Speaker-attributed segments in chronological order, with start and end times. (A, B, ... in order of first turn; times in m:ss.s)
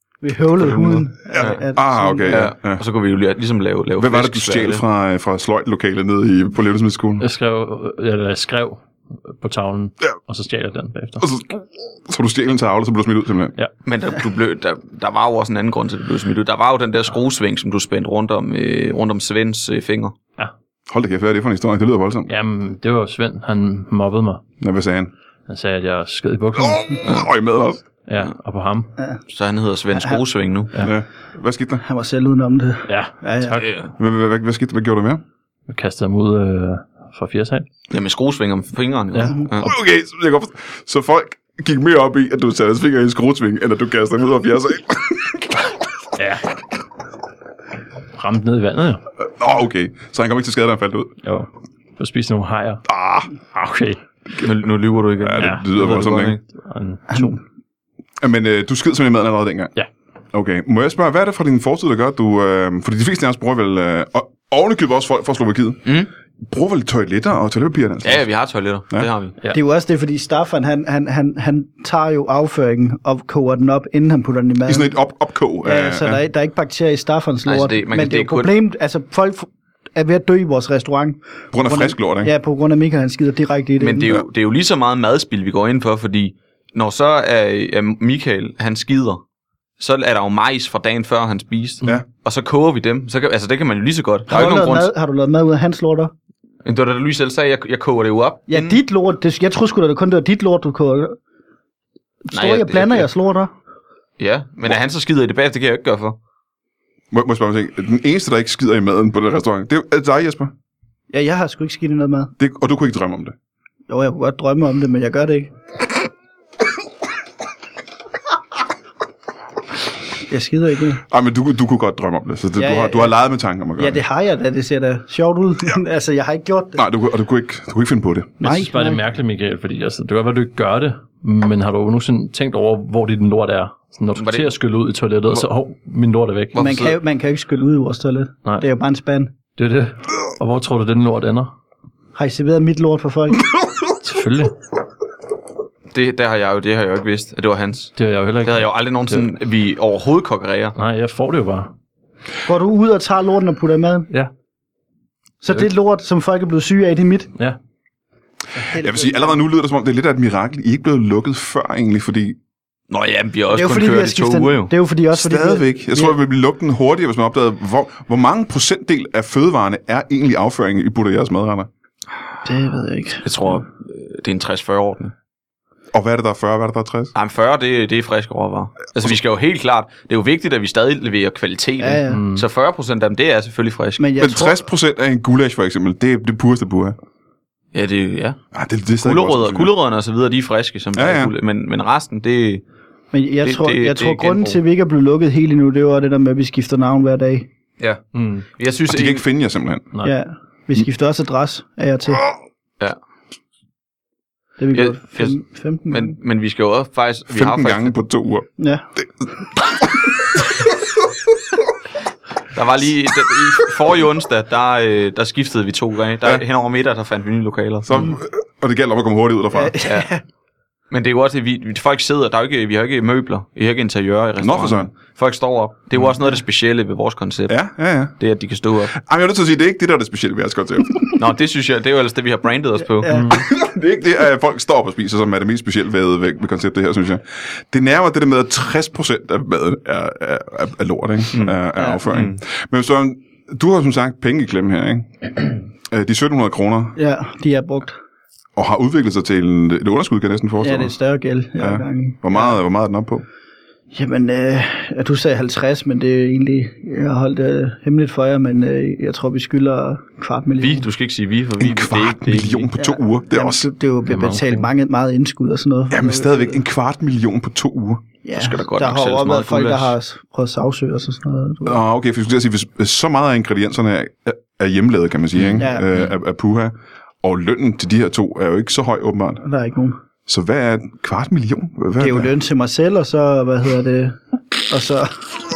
0:00.2-0:02.4 A
0:00.6-0:01.6 B
0:01.3-0:02.8 C
0:02.2-0:04.8 B
0:04.0-0:07.2 C
0:07.2-0:11.2 D
0:11.2-0:13.5 C
0:13.8-0:20.1 B
0:20.9-0:22.3 C
0:22.3-0:24.4 D
0:24.6-0:25.1 C
0:25.5-0:27.0 D
0:26.6-0:27.8 C
0:28.0-0:28.9 D
0:29.3-0:30.7 B
0:29.9-0:30.2 A
0:30.8-0:31.8 C
0:31.8-0:33.6 A
0:32.9-0:33.7 D
0:33.5-0:33.9 B
0:34.0-0:35.2 C
0:35.7-0:37.7 D
0:37.9-0:39.7 B
0:39.1-0:39.4 D
0:39.2-0:39.5 A
0:39.6-0:45.6 C
0:46.2-0:46.4 D
0:48.1-0:49.0 D
0:49.2-0:51.2 C
0:51.2-0:52.8 D
0:52.8-0:53.3 C
0:53.5-0:54.0 D
0:54.4-0:56.4 B
0:55.2-0:56.4 C
0:55.4-0:55.6 D
0:56.5-0:57.4 D
0:58.2-0:59.7 C
1:00.3-1:05.9 C
1:05.8-1:06.1 B
1:06.5-1:08.2 C
1:08.0-1:09.4 B
1:09.5-1:14.9 A
1:14.6-1:16.2 C
1:15.6-1:24.1 A
1:17.4-1:18.5 B
1:21.5-1:22.3 C
1:23.8-1:29.2 B
1:29.8-1:34.9 B
1:34.3-1:36.1 A
1:36.6-1:38.8 B
1:38.5-1:41.2 A
1:42.2-1:43.5 A
1:42.3-1:43.1 B
1:44.2-1:46.2 B
1:47.1-1:50.5 C
1:51.1-1:52.3 A
1:52.4-1:53.3 C
1:53.9-1:55.5 A
2:00.3-2:01.0 A
2:01.1-2:04.0 C
2:02.6-2:03.2 A
2:03.8-2:06.8 A
2:06.8-2:08.4 C
2:08.4-2:09.0 A
2:08.4-2:16.9 D
2:14.2-2:14.5 B
2:16.5-2:17.0 B
2:16.5-2:19.3 A
2:19.6-2:21.5 D
2:22.1-2:23.5 A
2:24.0-2:24.5 D
2:25.9-2:30.7 B
2:28.0-2:29.3 D
2:30.8-2:31.7 D
2:32.4-2:34.1 A
2:35.4-2:37.3 A
2:38.5-2:42.4 C
2:38.6-2:39.4 A
2:42.9-2:44.7 B
2:43.5-2:46.2 A
2:45.1-2:51.7 C
2:52.4-2:53.2 A
2:53.2-2:55.1 B
2:55.9-2:57.1 C
2:57.1-3:04.3 B
3:01.8-3:02.3 A
3:02.1-3:02.4 D
3:04.0-3:04.6 A
3:04.2-3:07.0 C
3:07.7-3:08.4 B
3:08.5-3:09.7 C
3:09.0-3:12.6 B
3:10.9-3:11.3 C
3:13.1-3:17.5 A
3:13.4-3:14.6 B
3:17.8-3:19.2 B
3:18.1-3:18.4 D
3:18.9-3:19.9 C
3:20.0-3:22.2 A
3:24.6-3:26.1 A
3:24.7-3:27.9 B
3:27.3-3:28.4 C
3:28.6-3:28.8 A
3:32.5-3:38.1 B
3:37.8-3:39.8 C
3:39.5-3:40.2 A
3:39.8-3:40.1 B
3:40.9-3:47.6 B
3:44.4-3:44.9 C
3:47.5-3:48.2 C
3:48.2-3:48.9 B
3:48.9-3:51.1 C
3:51.1-3:53.2 B
3:52.9-3:53.5 A
3:53.1-3:53.5 D
3:53.3-4:07.0 C
4:02.1-4:02.4 B
4:07.0-4:08.0 A
4:08.6-4:10.9 C
4:10.6-4:12.6 A
4:11.6-4:13.2 C
4:13.9-4:20.9 A
4:20.6-4:22.7 B
4:21.6-4:23.7 C
4:22.8-4:26.6 A
4:24.0-4:24.7 D
4:25.9-4:28.0 C
4:28.2-4:31.8 A
4:28.4-4:29.9 B
4:31.6-4:39.4 C
4:35.4-4:35.6 B
4:35.6-4:35.8 A
4:39.4-4:40.0 A
4:40.3-4:42.3 C
4:42.0-4:45.2 A